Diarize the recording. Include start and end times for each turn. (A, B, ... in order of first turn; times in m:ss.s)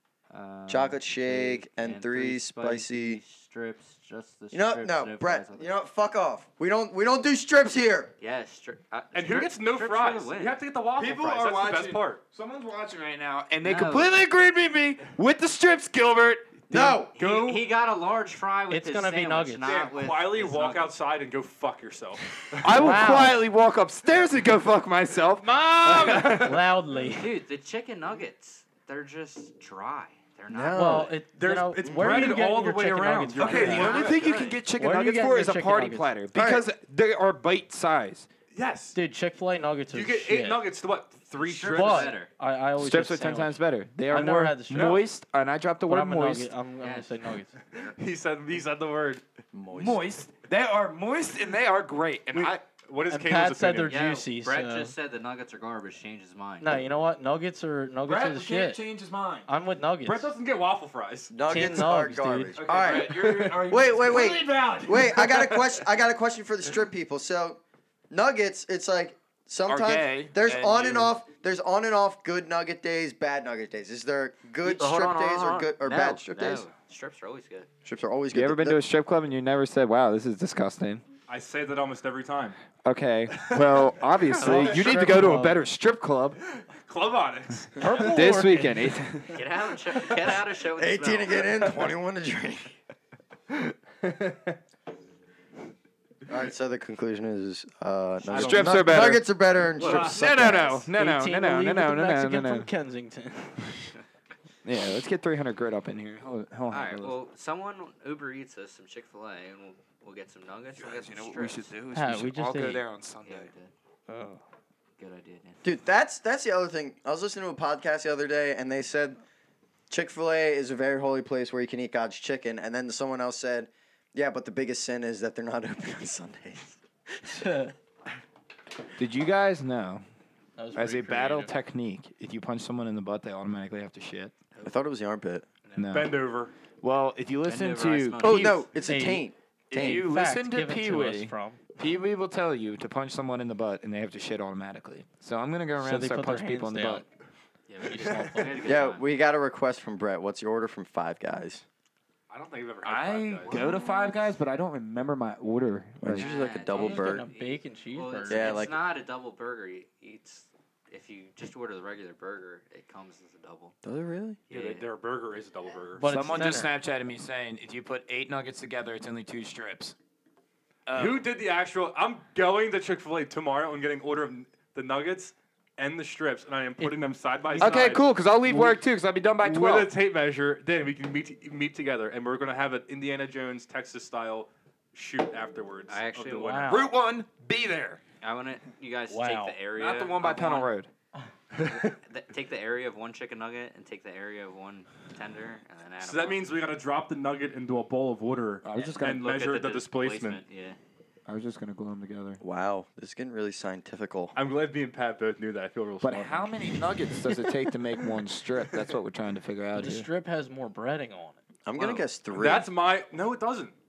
0:00.3-0:05.7 A
0:00.7-0:03.2 B
0:04.5-0:08.1 B
0:08.2-0:10.6 A
0:09.1-0:12.2 C
0:11.0-0:16.5 D
0:13.6-0:14.2 A
0:16.7-0:17.2 B
0:16.8-0:17.6 C
0:17.2-0:21.0 A
0:18.7-0:19.7 E
0:19.7-0:23.0 C
0:22.6-0:26.6 D
0:22.7-0:23.4 E
0:25.4-0:26.6 C
0:26.1-0:27.4 E
0:27.0-0:31.2 A
0:30.5-0:31.2 B
0:30.8-0:34.1 E
0:31.3-0:34.3 C
0:31.8-0:32.4 B
0:33.4-0:38.3 D
0:33.4-0:34.6 A
0:34.8-0:36.1 E
0:36.3-0:36.7 B
0:38.5-0:39.0 C
0:38.9-0:40.7 E
0:39.9-0:42.2 C
0:41.4-0:42.3 A
0:41.7-0:45.0 E
0:42.8-0:46.5 D
0:44.7-0:45.0 C
0:45.9-0:47.5 E
0:46.8-0:47.2 A
0:47.8-0:49.2 C
0:49.5-0:50.1 B
0:49.7-0:52.6 D
0:52.3-0:54.0 C
0:53.1-0:54.9 E
0:53.9-0:56.8 A
0:56.6-0:58.8 E
0:58.0-0:59.5 D
0:59.5-1:00.3 E
1:00.0-1:01.3 C
1:01.3-1:16.7 B
1:01.5-1:02.6 E
1:02.6-1:05.5 D
1:02.8-1:03.7 C
1:05.0-1:05.4 C
1:09.7-1:11.2 D
1:14.6-1:17.7 A
1:17.8-1:18.8 B
1:18.3-1:21.0 D
1:21.3-1:22.6 C
1:22.8-1:26.4 D
1:23.4-1:23.8 C
1:24.4-1:25.1 C
1:24.4-1:25.6 E
1:26.5-1:28.3 C
1:27.8-1:28.9 E
1:28.0-1:29.4 D
1:29.3-1:31.6 A
1:30.8-1:32.8 B
1:34.0-1:34.6 C
1:36.3-1:40.9 B
1:38.3-1:39.3 D
1:38.3-1:39.1 C
1:39.8-1:40.2 A
1:39.8-1:40.5 C
1:39.8-1:42.7 D
1:40.9-1:43.9 E
1:44.6-1:47.2 D
1:46.7-1:51.7 A
1:50.8-1:53.5 D
1:51.9-1:52.8 E
1:53.2-1:53.7 A
1:54.1-1:54.4 E
1:55.0-1:55.7 A
1:55.6-1:59.2 B
1:59.9-2:07.4 B
2:07.3-2:07.7 E
2:09.0-2:10.0 D
2:10.6-2:11.5 E
2:10.8-2:14.3 D
2:14.5-2:14.8 A
2:14.6-2:15.5 B
2:15.6-2:16.1 A
2:15.8-2:16.2 D
2:15.9-2:16.5 C
2:16.8-2:18.6 D
2:17.4-2:18.7 A
2:18.2-2:20.1 B
2:18.8-2:21.6 E
2:19.7-2:27.0 D
2:25.8-2:27.0 E
2:27.7-2:28.8 E
2:27.8-2:29.1 A
2:28.6-2:31.6 B
2:32.3-2:33.7 C
2:32.8-2:36.3 D
2:36.0-2:37.3 B
2:36.1-2:43.8 A
2:36.7-2:38.6 E
2:38.3-2:38.8 B
2:43.8-2:44.4 B
2:44.5-2:44.9 A
2:44.5-2:46.6 C
2:46.0-2:46.7 E
2:46.1-2:50.0 D
2:50.9-2:51.2 D
2:50.9-2:58.8 C
2:56.8-2:58.0 E
2:57.6-2:59.9 D
2:59.4-3:06.8 C
3:05.9-3:06.7 A
3:06.4-3:06.9 E
3:06.7-3:08.0 D
3:08.2-3:10.7 A
3:09.1-3:09.6 E
3:09.8-3:10.9 D
3:11.5-3:11.9 C
3:11.7-3:16.5 A
3:16.0-3:20.4 C
3:18.6-3:19.4 D
3:18.7-3:20.8 A
3:21.3-3:22.4 D
3:22.4-3:24.4 B
3:24.4-3:27.3 C
3:26.0-3:30.1 D
3:29.7-3:31.4 E
3:31.7-3:32.7 B
3:31.8-3:32.1 A
3:32.3-3:33.7 C